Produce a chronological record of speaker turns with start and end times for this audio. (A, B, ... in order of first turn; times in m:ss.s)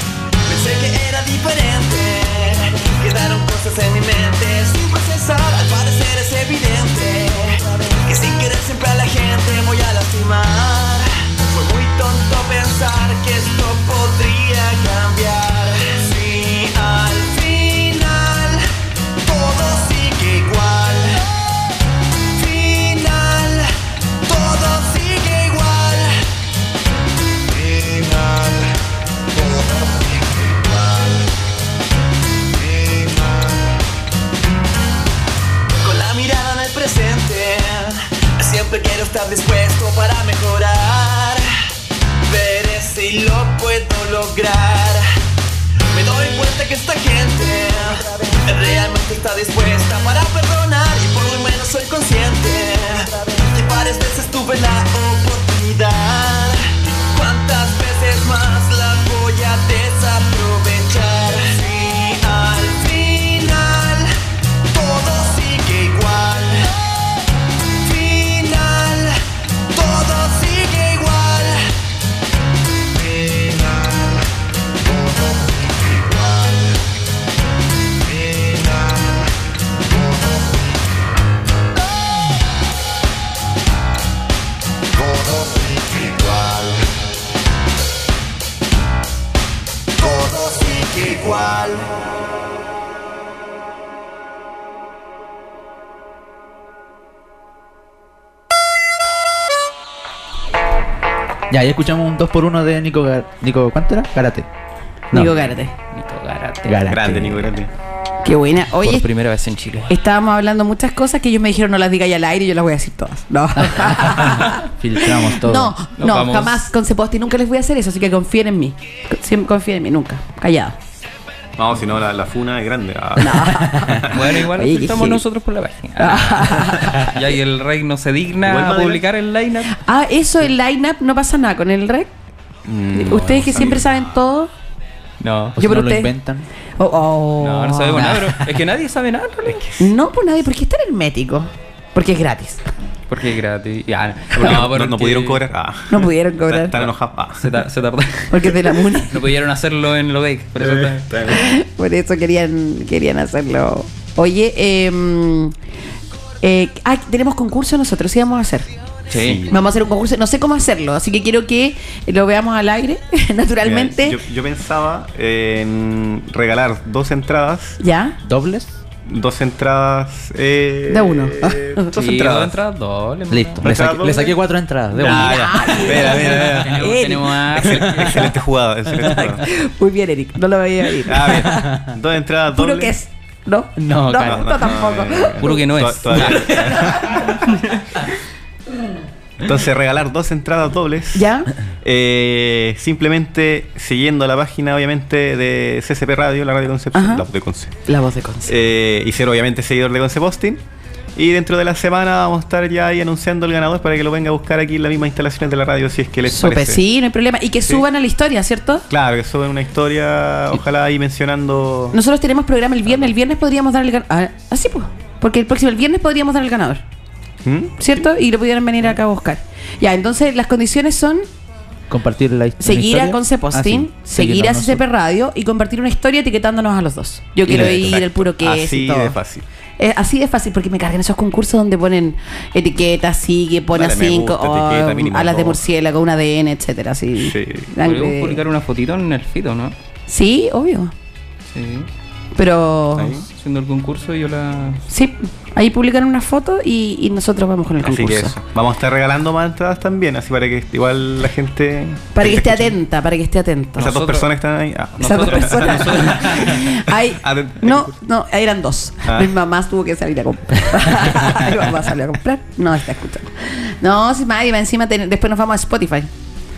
0:00.4-0:18.7 A
0:19.2-0:21.4 A
0:22.3-0:26.2 A
0:27.5-0:28.8 A
0:29.3-0:31.3 A
0:32.6-0:33.7 A
0:35.8-0:41.5 A
0:42.2-0:45.1 A
0:45.9-1:04.1 A
1:04.7-1:06.8 A
1:07.8-1:11.7 A
1:13.0-1:14.1 A
1:14.9-1:16.8 A
1:18.1-1:19.1 A
1:20.0-1:20.4 A
1:25.0-1:26.8 A
1:30.0-1:31.9 A
1:41.5-1:44.5 B
1:45.1-1:45.7 C
1:45.2-1:46.9 D
1:46.6-1:47.5 B
1:46.8-1:47.7 E
1:48.2-1:49.1 C
1:48.8-1:49.9 D
1:49.9-2:00.8 C
1:53.6-1:55.8 B
1:56.0-1:56.7 D
2:01.6-2:04.2 E
2:03.2-2:05.2 C
2:03.7-2:04.0 B
2:04.1-2:09.8 D
2:06.0-2:07.2 C
2:08.4-2:09.0 E
2:09.7-2:12.1 C
2:12.7-2:14.1 E
2:12.9-2:14.5 C
2:15.2-2:15.6 D
2:15.6-2:16.5 B
2:15.6-2:16.1 C
2:16.8-2:18.1 C
2:17.4-2:19.7 D
2:18.0-2:18.6 B
2:19.5-2:19.9 E
2:19.8-2:22.6 C
2:23.1-2:25.4 D
2:24.3-2:27.6 E
2:25.9-2:26.8 C
2:26.8-2:31.1 D
2:28.3-2:29.2 C
2:30.6-2:31.5 E
2:31.3-2:35.6 C
2:36.4-2:38.7 C
2:39.1-2:39.4 D
2:39.1-2:39.6 E
2:39.5-2:44.2 C
2:43.6-2:47.8 E
2:47.8-2:48.2 C
2:48.2-2:48.7 B
2:49.1-2:52.6 E
2:50.9-2:51.9 C
2:51.9-2:53.7 D
2:53.3-2:56.1 B
2:53.6-2:59.4 E
2:55.0-2:57.8 C
2:56.1-2:58.3 D
2:59.0-3:01.7 C
3:01.0-3:03.0 E
3:01.3-3:01.9 B
3:02.5-3:05.7 C
3:03.8-3:04.8 B
3:04.2-3:07.5 E
3:05.4-3:06.7 D
3:06.2-3:07.4 B
3:07.4-3:07.8 D
3:09.4-3:17.8 E
3:11.2-3:11.5 C
3:16.9-3:17.3 C
3:17.9-3:18.5 C
3:18.5-3:20.6 E
3:21.2-3:26.8 E
3:26.3-3:28.9 C
3:28.9-3:32.0 E
3:31.9-3:36.8 C
3:37.4-3:38.0 E
3:37.8-3:41.3 C
3:41.9-3:44.8 B
3:42.6-3:49.2 C
3:47.5-3:49.4 E
3:49.8-3:58.4 C
3:53.7-3:55.6 E
3:57.2-3:57.7 E
3:57.8-3:59.8 D
4:00.1-4:00.9 C
4:01.5-4:01.9 D
4:02.4-4:03.2 C
4:03.0-4:03.3 E
4:03.3-4:04.8 D
4:04.9-4:08.4 C
4:07.8-4:12.8 E
4:12.1-4:13.9 C
4:13.8-4:14.3 D
4:13.8-4:17.9 E
4:15.0-4:16.7 D
4:15.0-4:26.1 C
4:19.1-4:19.3 E